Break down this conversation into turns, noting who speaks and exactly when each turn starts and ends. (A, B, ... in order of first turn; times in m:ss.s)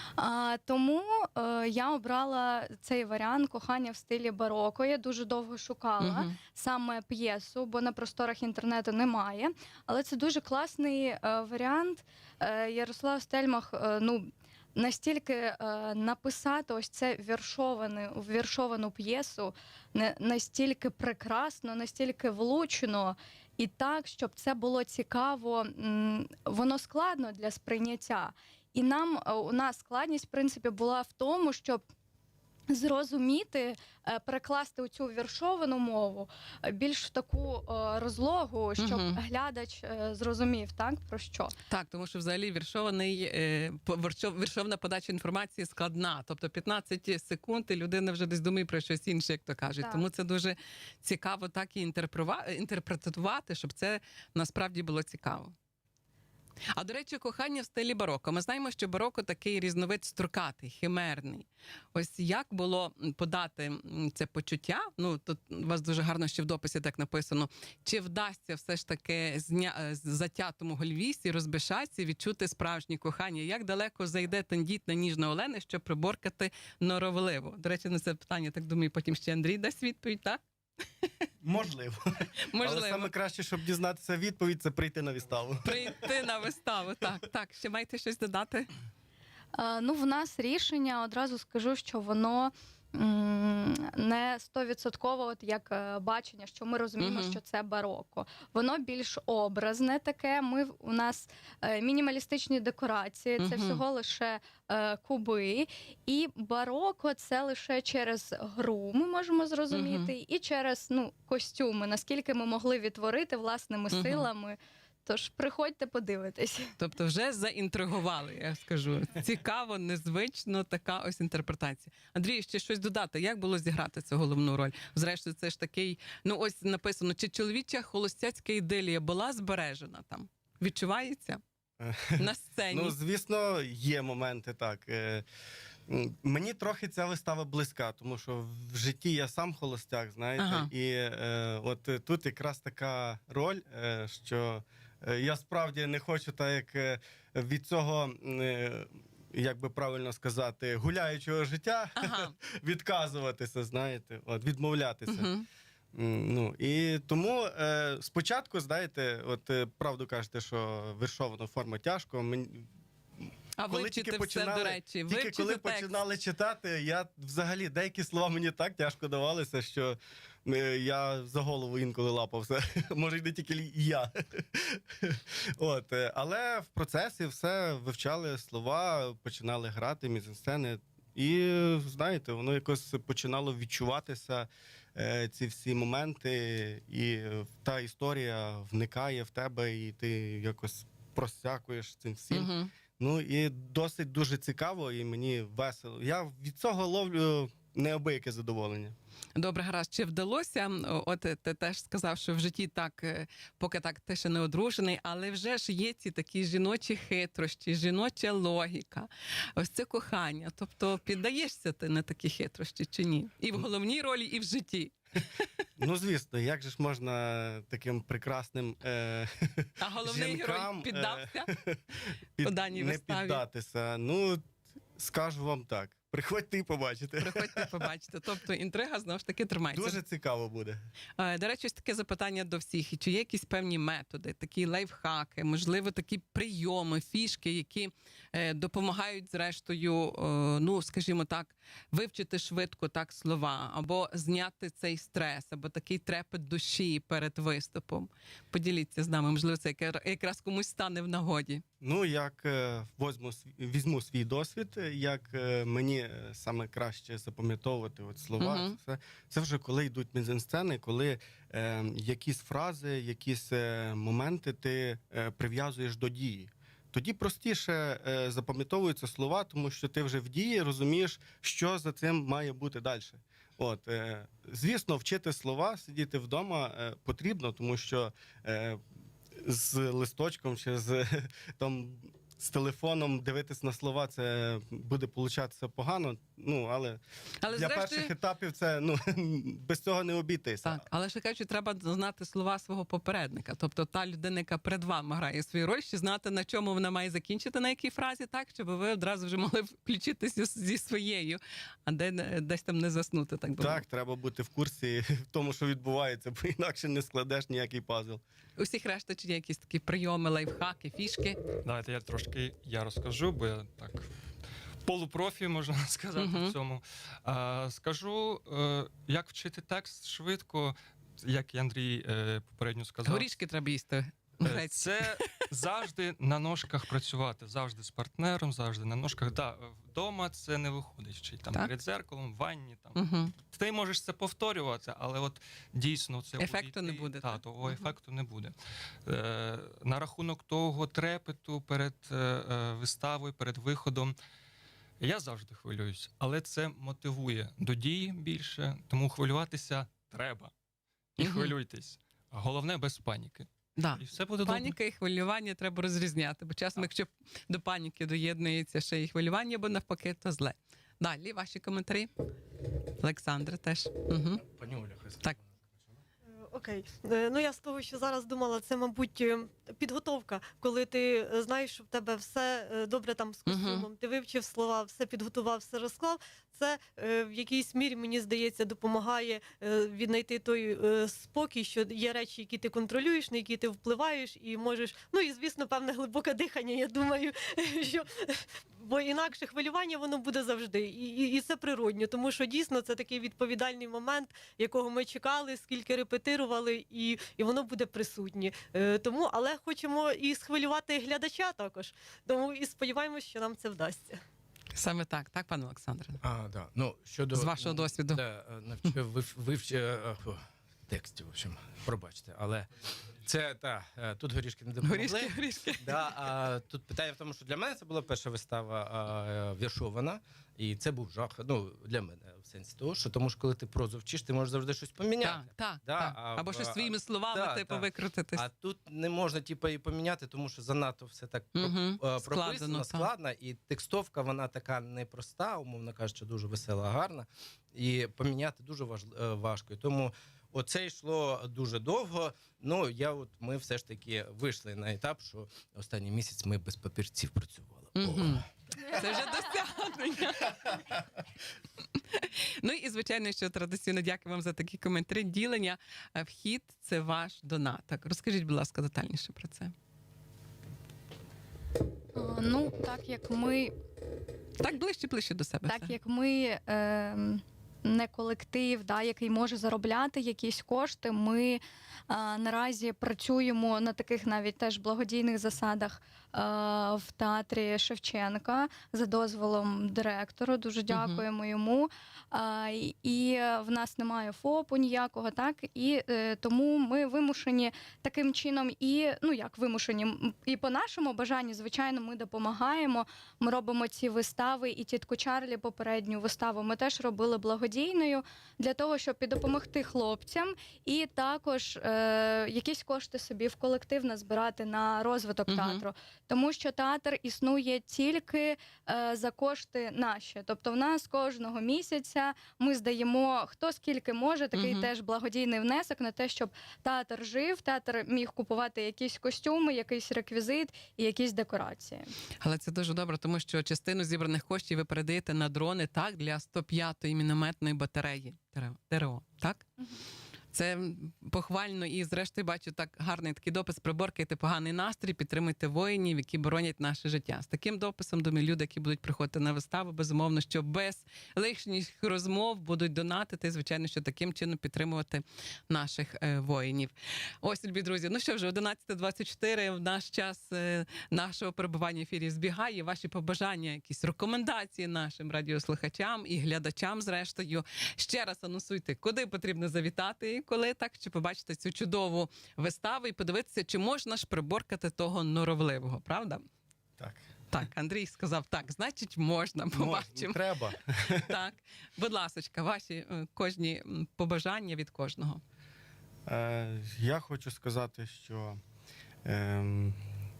0:00.2-0:31.8 A
0:06.0-0:06.4 B
0:32.7-0:41.5 A
0:38.8-0:39.2 B
0:41.7-0:55.5 B
0:49.8-0:50.1 A
0:56.8-1:20.4 B
1:21.4-1:22.0 C
1:22.4-1:23.1 B
1:22.6-1:26.0 C
1:25.6-1:28.7 B
1:29.6-1:56.7 A
1:37.0-1:37.4 B
1:43.4-1:43.8 B
1:49.7-1:50.1 B
1:53.9-1:54.3 B
1:56.8-2:11.4 B
2:12.2-2:13.0 B
2:12.7-2:15.1 C
2:14.2-2:14.6 A
2:15.9-2:35.3 C
2:16.6-2:17.3 A
2:20.4-2:20.7 B
2:32.0-2:32.3 B
2:35.1-2:35.4 B
2:35.9-2:42.7 C
2:43.6-2:46.0 B
2:43.8-3:19.0 C
3:12.3-3:12.7 B
3:19.4-3:35.5 B
3:35.8-3:41.8 C
3:39.8-3:41.5 B
3:42.4-3:44.4 C
3:42.4-3:43.4 B
3:45.0-3:47.9 C
3:47.2-3:50.0 B
3:49.7-3:50.8 C
3:51.2-4:11.6 B
4:11.8-4:38.8 C
4:18.4-4:18.8 B
4:39.4-4:50.8 C
4:47.4-4:48.1 B
4:50.6-5:03.8 B
5:03.6-5:08.2 C
5:08.6-5:11.4 B
5:11.6-5:14.1 D
5:14.8-5:23.3 D
5:16.2-5:16.6 B
5:23.0-5:25.5 B
5:24.4-5:38.6 D
5:33.0-5:33.3 B
5:36.4-5:37.9 B
5:39.1-5:44.2 D
5:45.0-5:50.5 D
5:51.2-5:54.8 D
5:51.2-5:51.5 B
5:53.8-6:02.1 B
6:03.0-6:04.4 B
6:04.4-6:05.3 E
6:06.5-6:44.2 F
6:13.5-6:13.9 B
6:44.7-6:46.2 B
6:46.2-7:28.4 E
6:47.3-6:48.2 B
6:54.8-6:56.1 B
7:05.2-7:08.4 B
7:11.6-7:13.1 B
7:28.0-7:31.0 B
7:32.0-7:39.7 B
7:42.2-7:43.7 A
7:44.6-7:45.9 B
7:45.7-8:42.1 A
8:00.9-8:01.2 B
8:25.5-8:25.8 B
8:34.6-8:34.9 B
8:42.4-8:49.6 B
8:50.5-9:26.4 B
9:27.5-9:30.5 B
9:29.8-9:31.2 C
9:31.2-9:35.4 B
9:36.3-9:38.6 C
9:39.3-9:40.0 C